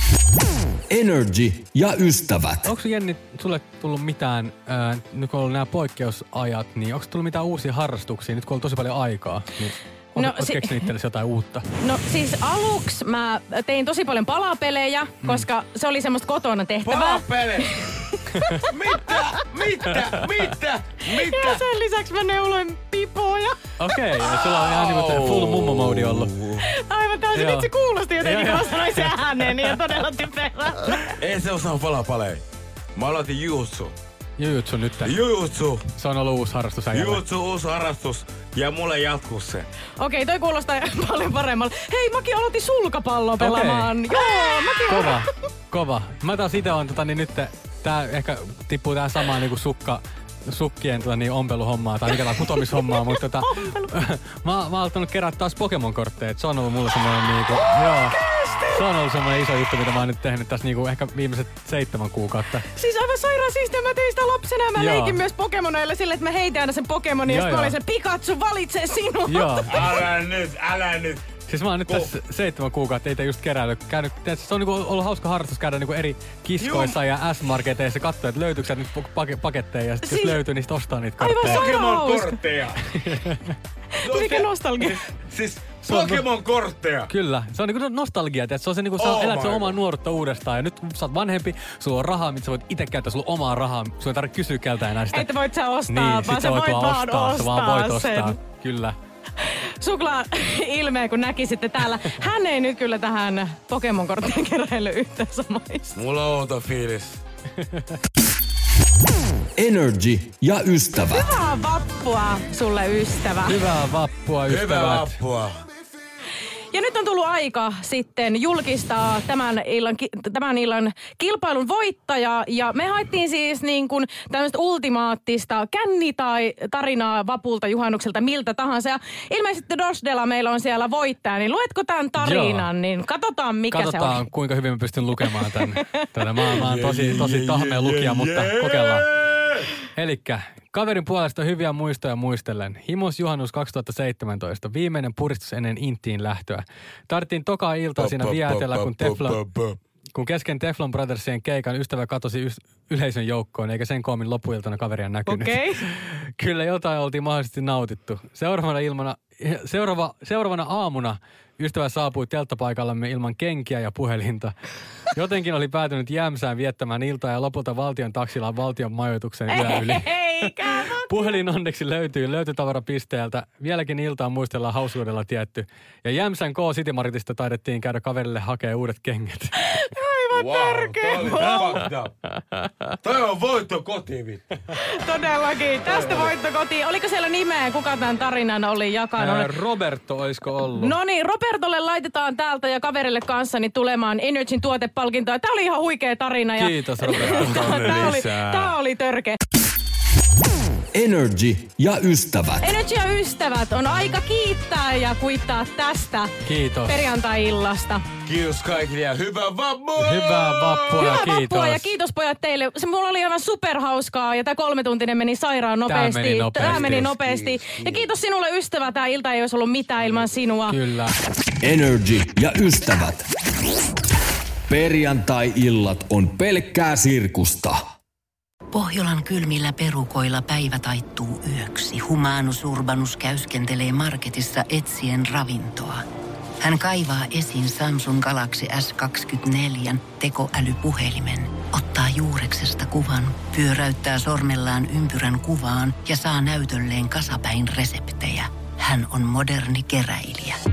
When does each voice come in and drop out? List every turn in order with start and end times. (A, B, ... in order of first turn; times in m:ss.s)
0:00.9-0:02.7 A
0:02.6-0:11.7 B
0:10.2-0:10.9 C
0:11.8-0:19.2 C
0:16.8-0:17.9 D
0:18.6-0:21.6 D
0:21.2-0:23.7 C
0:23.8-0:26.3 B
0:24.5-0:26.7 D
0:26.6-0:31.2 C
0:27.3-0:27.7 B
0:28.2-0:29.2 B
0:31.2-0:32.4 D
0:33.0-0:33.9 D
0:34.4-0:35.2 B
0:35.0-0:35.9 D
0:36.0-0:37.2 B
0:36.9-0:39.7 D
0:40.0-0:45.2 C
0:43.4-0:43.9 B
0:44.9-0:58.2 B
0:52.4-0:53.9 C
0:57.6-0:58.8 C
0:58.7-1:02.6 B
1:02.7-1:09.8 C
1:04.8-1:05.2 B
1:07.3-1:07.8 B
1:09.3-1:09.9 B
1:09.7-1:11.3 D
1:11.5-1:21.7 B
1:11.9-1:12.1 D
1:16.6-1:16.9 D
1:20.0-1:20.4 C
1:21.2-1:22.4 C
1:21.4-1:22.8 D
1:22.9-1:23.6 B
1:23.9-1:25.0 C
1:24.0-1:27.1 D
1:25.8-1:26.2 B
1:27.1-1:35.3 B
1:29.0-1:29.7 D
1:35.1-1:38.3 C
1:35.9-1:39.0 B
1:39.4-1:45.9 C
1:45.9-1:47.2 D
1:49.6-1:51.3 A
1:51.1-1:53.6 C
1:53.4-1:55.1 B
1:54.5-1:55.6 D
1:56.7-2:14.2 C
2:12.2-2:12.7 B
2:13.7-2:19.1 B
2:16.5-2:19.7 D
2:19.9-2:29.4 B
2:28.0-2:29.8 D
2:30.1-2:44.5 B
2:35.3-2:36.0 C
2:45.1-2:50.1 B
2:49.5-2:51.4 C
2:50.7-2:59.8 B
2:59.6-3:01.9 C
3:00.3-3:02.1 D
3:03.0-3:04.4 D
3:04.8-3:09.5 C
3:05.9-3:06.3 B
3:09.2-3:11.0 B
3:10.8-3:19.4 C
3:16.6-3:18.0 B
3:17.2-3:18.7 D
3:20.9-3:22.7 A
3:22.6-3:26.3 C
3:26.4-3:27.0 B
3:26.8-3:28.0 C
3:28.2-3:31.2 D
3:30.0-3:31.9 B
3:31.0-3:40.8 C
3:35.9-3:37.1 B
3:36.6-3:38.1 D
3:40.7-3:41.1 B
3:41.6-3:43.3 A
3:44.7-3:47.9 A
3:48.7-3:56.0 E
3:56.6-4:10.6 E